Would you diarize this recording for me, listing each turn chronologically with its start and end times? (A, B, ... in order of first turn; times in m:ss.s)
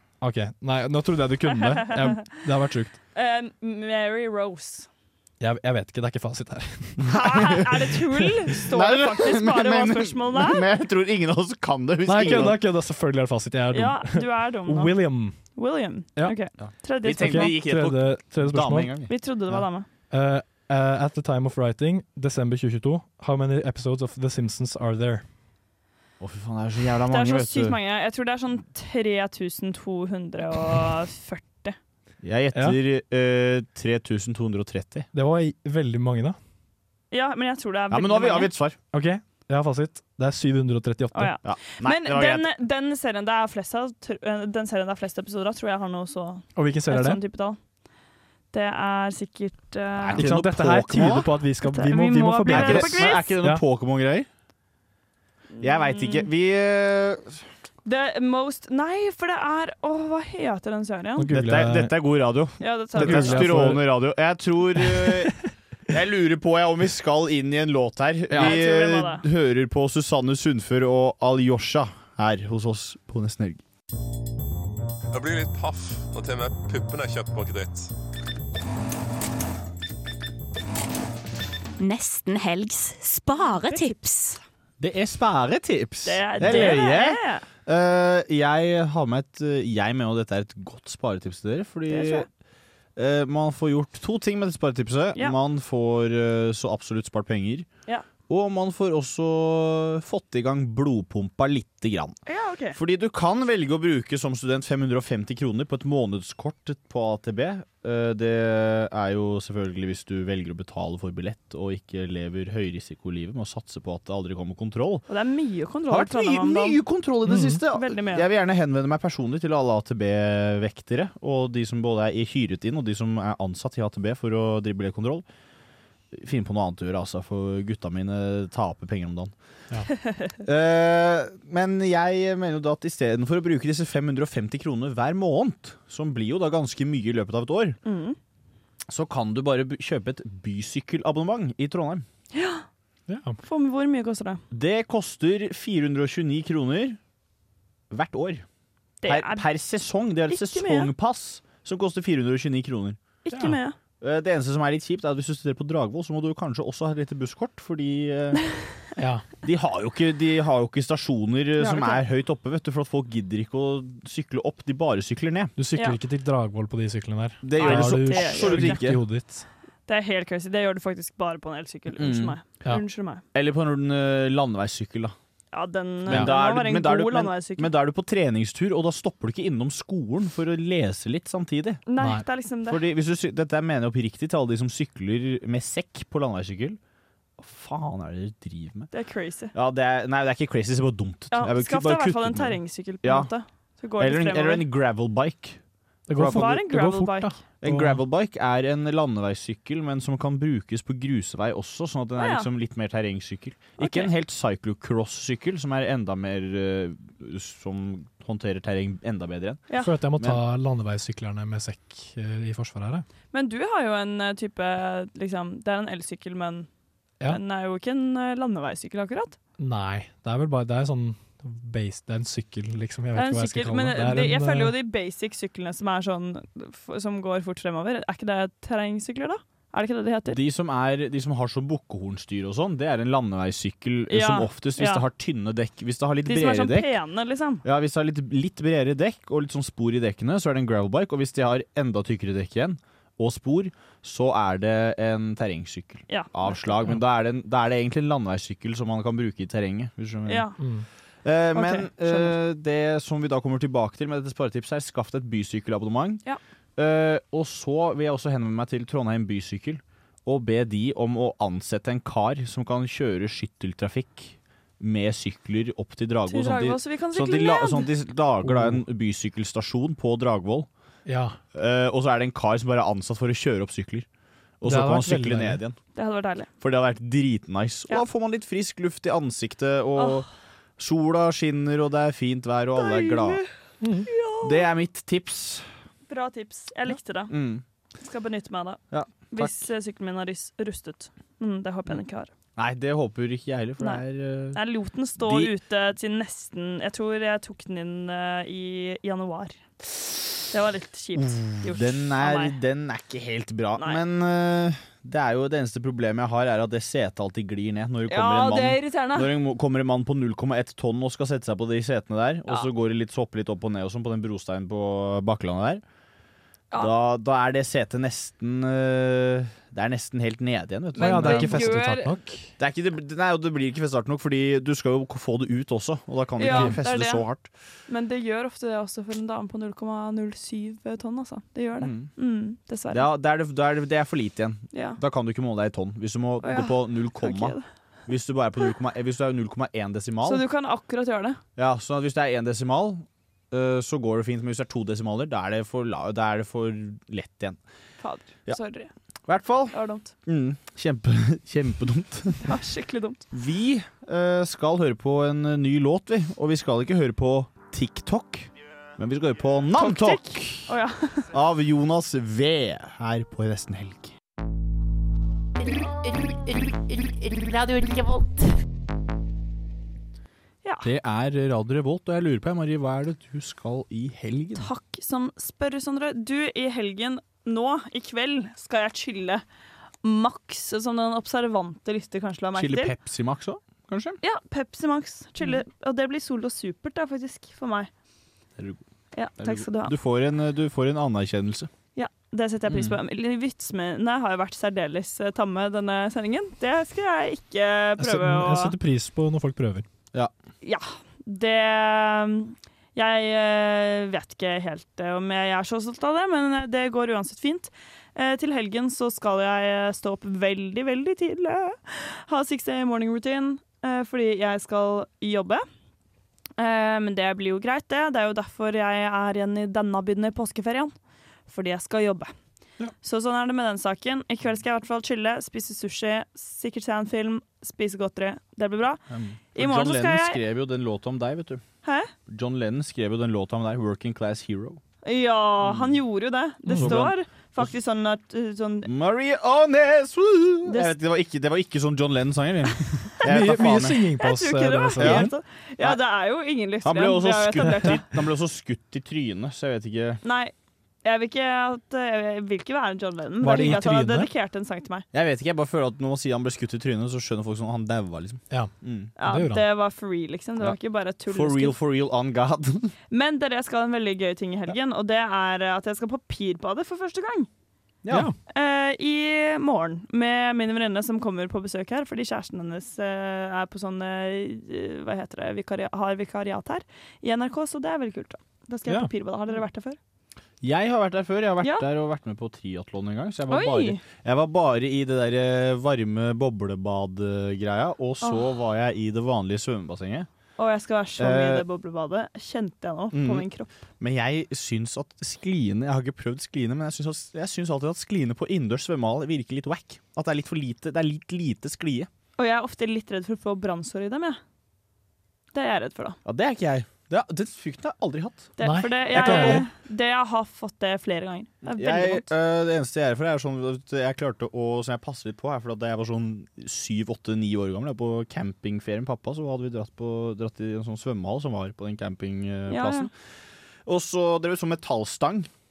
0:00.2-0:03.0 A
0:03.1-0:04.9 B
0:05.4-0:07.1 A
0:07.0-0:07.6 C
0:07.1-0:10.6 B
0:08.6-0:12.6 C
0:12.0-0:15.4 A
0:13.7-0:15.0 B
0:15.5-0:17.6 B
0:16.6-0:19.6 C
0:17.1-0:18.9 A
0:19.1-0:19.9 B
0:20.1-0:25.2 A
0:26.2-0:27.8 C
0:27.1-0:31.8 B
0:32.2-0:35.1 C
0:35.1-0:36.4 A
0:37.1-0:38.5 B
0:37.9-0:38.8 C
0:38.9-0:41.4 A
0:41.1-0:47.6 B
0:41.4-0:42.5 C
0:46.6-0:47.2 A
0:48.5-0:50.3 B
0:50.0-0:51.3 C
0:50.2-0:53.6 A
0:51.6-0:53.3 B
0:52.5-0:54.3 C
0:55.6-0:56.3 B
0:55.6-0:57.4 C
0:57.8-1:01.3 B
1:01.2-1:02.0 A
1:01.3-1:05.4 C
1:02.6-1:03.5 B
1:02.9-1:03.9 A
1:05.9-1:13.6 C
1:08.3-1:08.6 A
1:08.3-1:09.2 B
1:15.1-1:17.9 D
1:21.8-1:24.4 E
1:23.4-1:24.0 B
1:24.8-1:32.3 C
1:26.0-1:27.4 B
1:31.9-1:32.3 B
1:33.0-1:37.7 C
1:38.3-1:42.2 C
1:42.2-1:42.8 B
1:42.7-1:55.0 C
1:55.1-1:56.8 B
1:55.9-2:05.2 C
1:57.2-1:57.6 A
1:57.7-1:58.3 B
2:06.1-2:09.3 C
2:10.4-2:17.8 C
2:17.8-2:18.2 B
2:18.9-2:22.0 C
2:22.3-2:22.6 B
2:23.1-2:23.4 A
2:23.4-2:24.4 B
2:24.5-2:27.0 C
2:27.9-2:28.4 C
2:29.0-2:29.4 B
2:29.0-2:33.0 C
2:30.3-2:30.9 B
2:33.2-2:33.8 B
2:33.3-2:33.6 A
2:34.0-2:38.4 C
2:39.0-2:39.2 A
2:39.4-2:45.5 C
2:41.6-2:42.0 B
2:45.6-2:49.4 A
2:47.4-2:49.0 C
2:47.6-2:48.8 B
2:49.9-2:53.2 B
2:51.9-2:52.4 C
2:53.3-2:55.1 C
2:55.5-2:57.7 B
2:56.1-3:01.8 C
3:01.9-3:02.8 B
3:02.7-3:06.8 C
3:07.4-3:08.9 C
3:08.9-3:09.5 B
3:09.5-3:13.3 C
3:11.3-3:14.7 B
3:14.0-3:15.6 C
3:16.1-3:18.0 A
3:16.2-3:16.5 C
3:16.2-3:17.3 B
3:17.6-3:30.4 C
3:22.2-3:22.5 B
3:23.8-3:24.1 B
3:29.8-3:33.0 A
3:33.3-3:36.7 B
3:37.3-3:39.4 B
3:39.6-3:44.8 A
3:43.1-3:50.4 B
3:50.3-3:56.9 C
3:54.1-3:55.0 B
3:56.3-3:57.6 B
3:57.6-4:10.5 C
4:06.1-4:06.7 B
4:10.3-4:10.6 B
4:10.6-4:10.8 A
4:11.2-4:16.2 C
4:11.5-4:12.3 B
4:16.8-4:30.7 C
4:26.3-4:27.9 B
4:28.5-4:28.8 A
4:31.0-4:31.4 A
4:31.5-4:34.1 C
4:34.6-4:35.8 C
4:34.6-4:35.6 A
4:35.9-4:36.5 B
4:36.6-4:43.4 C
4:40.0-4:40.2 B
4:42.7-4:43.5 B
4:43.8-4:44.1 A
4:44.1-4:44.6 B
4:44.4-4:45.7 C
4:46.1-4:47.3 B
4:47.3-4:47.6 C
4:48.0-4:52.3 B
4:48.9-4:49.6 C
4:52.6-4:54.6 C
4:53.8-4:59.6 B
4:55.2-4:55.5 C
5:00.5-5:02.6 B
5:01.1-5:15.8 C
5:08.1-5:09.3 B
5:16.8-5:21.8 C
5:21.0-5:22.1 B
5:21.0-5:22.5 A
5:22.6-5:27.5 C
5:26.4-5:27.2 B
5:26.4-5:26.8 A
5:27.9-5:33.1 B
5:31.8-5:32.1 C
5:32.9-5:40.4 C
5:34.7-5:35.0 B
5:36.4-5:37.6 B
5:40.2-5:41.4 B
5:41.6-5:47.6 C
5:48.0-5:48.9 B
5:49.2-5:52.6 C
5:49.7-5:50.1 B
5:52.4-5:53.2 B
5:53.3-6:00.7 C
5:59.7-6:01.3 B
6:01.3-6:04.1 C
6:10.8-6:14.7 C
6:14.6-6:19.4 B
6:20.0-6:22.9 B
6:22.5-6:24.2 C
6:24.2-6:27.9 B
6:29.1-6:29.9 B
6:29.4-6:31.7 C
6:32.0-6:38.7 B
6:32.7-6:33.0 C
6:38.0-6:39.8 A
6:40.6-6:55.6 B
6:56.6-7:00.9 B
7:01.5-7:02.3 B
7:03.0-7:09.0 B
7:09.1-7:11.6 C
7:09.5-7:10.4 B
7:11.8-7:12.1 B
7:12.3-7:14.8 C
7:15.0-7:18.9 B
7:15.6-7:16.0 C
7:16.7-7:17.1 A
7:16.7-7:17.7 C
7:18.8-7:24.0 C
7:20.7-7:20.9 B
7:23.2-7:25.3 A
7:24.2-7:28.0 B
7:24.9-7:25.3 C
7:26.8-7:30.2 C
7:30.2-7:35.0 B
7:33.4-7:34.3 A
7:35.1-7:39.1 C
7:39.2-7:41.8 B
7:39.2-7:39.6 A
7:41.3-7:42.9 C
7:43.1-7:47.5 B
7:48.0-7:48.3 C
7:48.1-7:48.4 A
7:48.5-8:00.0 B
8:00.6-8:10.3 C
8:03.5-8:04.0 B
8:10.6-8:13.7 B
8:11.2-8:11.6 C
8:13.1-8:13.5 C
8:14.0-8:22.1 C
8:22.4-8:24.4 B
8:25.5-8:26.2 B
8:26.2-8:28.5 C
8:28.6-8:32.3 B
8:28.6-8:29.6 A
8:29.1-8:29.6 C
8:31.6-8:43.1 C
8:42.7-8:43.1 B
8:43.8-8:45.5 C